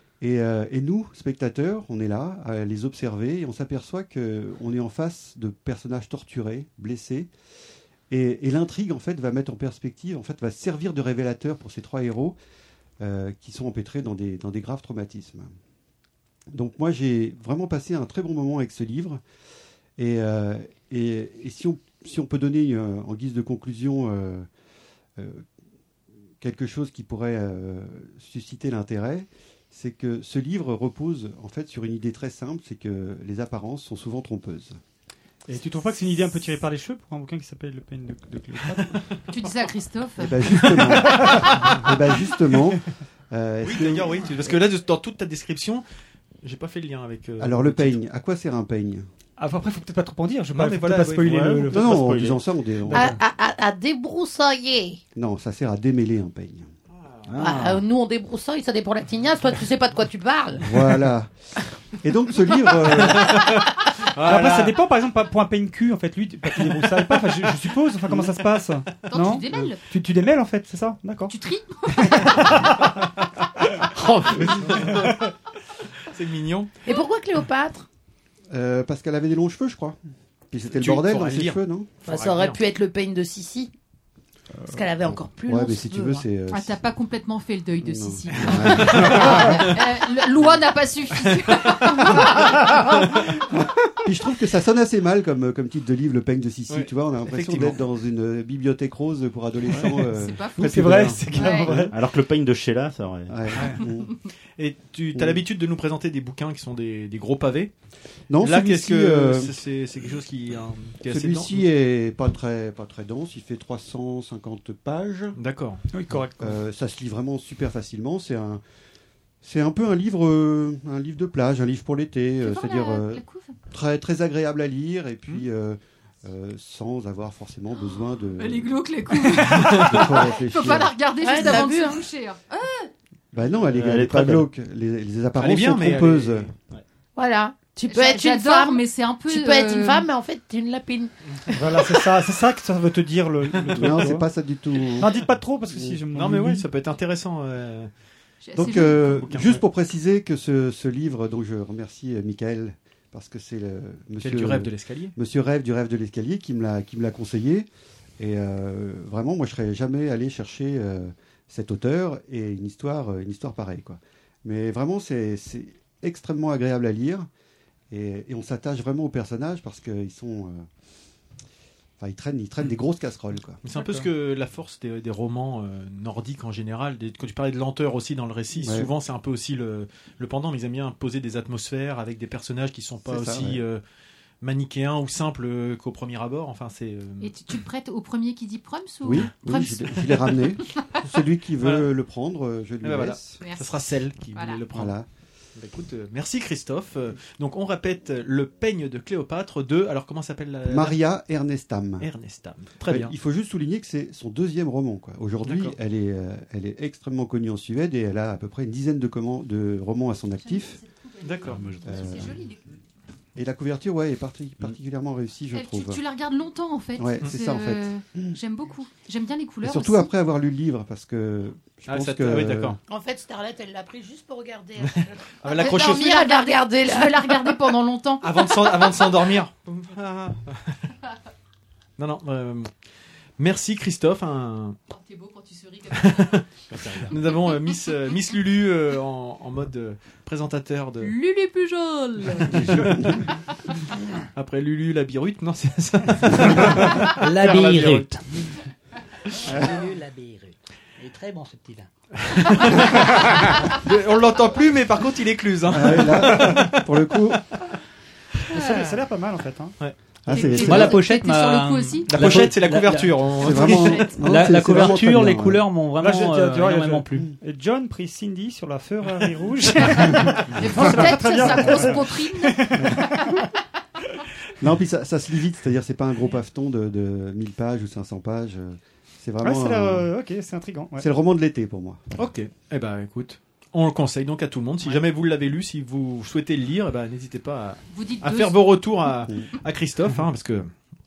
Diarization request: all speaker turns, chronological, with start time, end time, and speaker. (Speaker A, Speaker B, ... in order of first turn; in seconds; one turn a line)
Speaker A: 0.2-7.3
Speaker A: 8.1-12.3
Speaker A: 13.0-15.5
Speaker A: 16.5-19.2
Speaker A: 20.0-24.5
Speaker A: 25.2-25.4
Speaker A: 26.4-34.8
Speaker B: 35.5-39.0
Speaker C: 39.3-40.7
Speaker A: 40.2-44.4
Speaker B: 41.2-41.5
Speaker D: 43.6-45.8
Speaker D: 46.4-48.0
Speaker A: 47.4-49.1
Speaker B: 49.4-51.9
Speaker D: 50.5-51.8
Speaker E: 51.2-52.4
Speaker A: 51.7-53.2
Speaker F: 52.9-55.0
Speaker A: 55.1-56.7
Speaker D: 56.9-57.5
Speaker F: 57.4-60.7
Speaker E: 57.4-57.6
Speaker A: 60.6-61.3
Speaker A: 62.0-63.4
Speaker D: 62.8-63.6
Speaker D: 64.2-64.8
Speaker B: 64.2-71.3
Speaker C: 69.1-69.8
Speaker C: 71.3-72.5
Speaker B: 72.0-72.7
Speaker D: 74.1-75.2
Speaker B: 74.4-75.1
Speaker D: 76.1-76.7
Speaker F: 76.8-77.9
Speaker A: 78.5-80.0
Speaker A: 80.5-82.0
Speaker D: 80.7-82.6
Speaker F: 82.0-83.7
Speaker F: 84.7-86.2
Speaker A: 85.2-86.8
Speaker C: 86.5-92.4
Speaker A: 87.8-89.6
Speaker D: 91.4-92.0
Speaker A: 93.4-101.9
Speaker D: 96.7-97.8
Speaker C: 100.1-100.7
Speaker B: 100.6-102.0
Speaker C: 101.3-101.7
Speaker E: 101.9-103.3
Speaker A: 103.3-104.1
Speaker D: 104.6-107.7
Speaker A: 105.1-105.4
Speaker A: 108.3-109.6
Speaker D: 108.4-111.7
Speaker A: 111.1-115.4
Speaker D: 115.3-115.8
Speaker B: 115.9-116.5
Speaker A: 116.4-118.6
Speaker A: 119.4-128.8
Speaker C: 122.4-123.5
Speaker C: 128.4-132.9
Speaker A: 129.6-130.9
Speaker F: 131.2-132.0
Speaker A: 133.3-136.5
Speaker E: 133.7-134.5
Speaker D: 135.4-136.5
Speaker F: 137.2-141.1
Speaker C: 137.9-140.1
Speaker B: 141.5-144.2
Speaker A: 143.7-145.1
Speaker B: 145.0-146.7
Speaker A: 145.7-146.0
Speaker D: 146.1-147.9
Speaker C: 148.4-149.2
Speaker A: 148.6-157.7
Speaker D: 149.0-149.6
Speaker D: 154.2-155.1
Speaker A: 158.2-167.3
Speaker A: 167.9-170.7
Speaker A: 172.0-173.6
Speaker D: 173.6-183.8
Speaker B: 173.7-174.1
Speaker A: 178.5-178.9
Speaker A: 183.0-183.6
Speaker D: 184.4-187.3
Speaker C: 187.2-191.0
Speaker A: 189.0-193.4
Speaker D: 191.6-191.9
Speaker D: 192.8-194.9
Speaker C: 193.4-193.8
Speaker C: 194.3-194.6
Speaker A: 194.7-195.1
Speaker D: 195.6-201.0
Speaker A: 200.6-202.1
Speaker D: 202.0-203.1
Speaker A: 202.8-210.8
Speaker D: 205.4-205.8
Speaker C: 211.0-212.7
Speaker D: 211.2-211.7
Speaker A: 211.8-212.4
Speaker A: 213.3-216.0
Speaker C: 215.5-220.1
Speaker A: 217.0-218.3
Speaker A: 219.6-222.8
Speaker D: 221.9-222.8
Speaker F: 222.9-227.6
Speaker D: 224.8-226.2
Speaker C: 225.5-229.0
Speaker D: 228.2-230.6
Speaker D: 232.0-232.7
Speaker D: 233.4-234.8
Speaker C: 234.9-236.4
Speaker D: 235.9-241.2
Speaker C: 237.1-238.2
Speaker C: 241.0-242.7
Speaker D: 242.5-243.0
Speaker D: 244.3-248.1
Speaker G: 247.2-248.2
Speaker G: 249.4-251.9
Speaker D: 252.2-257.4
Speaker A: 255.7-257.4
Speaker B: 258.5-259.7
Speaker D: 258.5-258.8
Speaker A: 260.2-261.0
Speaker C: 260.3-262.1
Speaker G: 260.5-267.3
Speaker D: 262.0-264.2
Speaker A: 263.4-265.6
Speaker C: 263.6-264.2
Speaker B: 266.0-273.4
Speaker C: 269.8-273.4
Speaker A: 274.6-280.1
Speaker B: 279.4-281.1
Speaker A: 281.0-282.0
Speaker D: 282.1-290.7
Speaker C: 287.9-288.6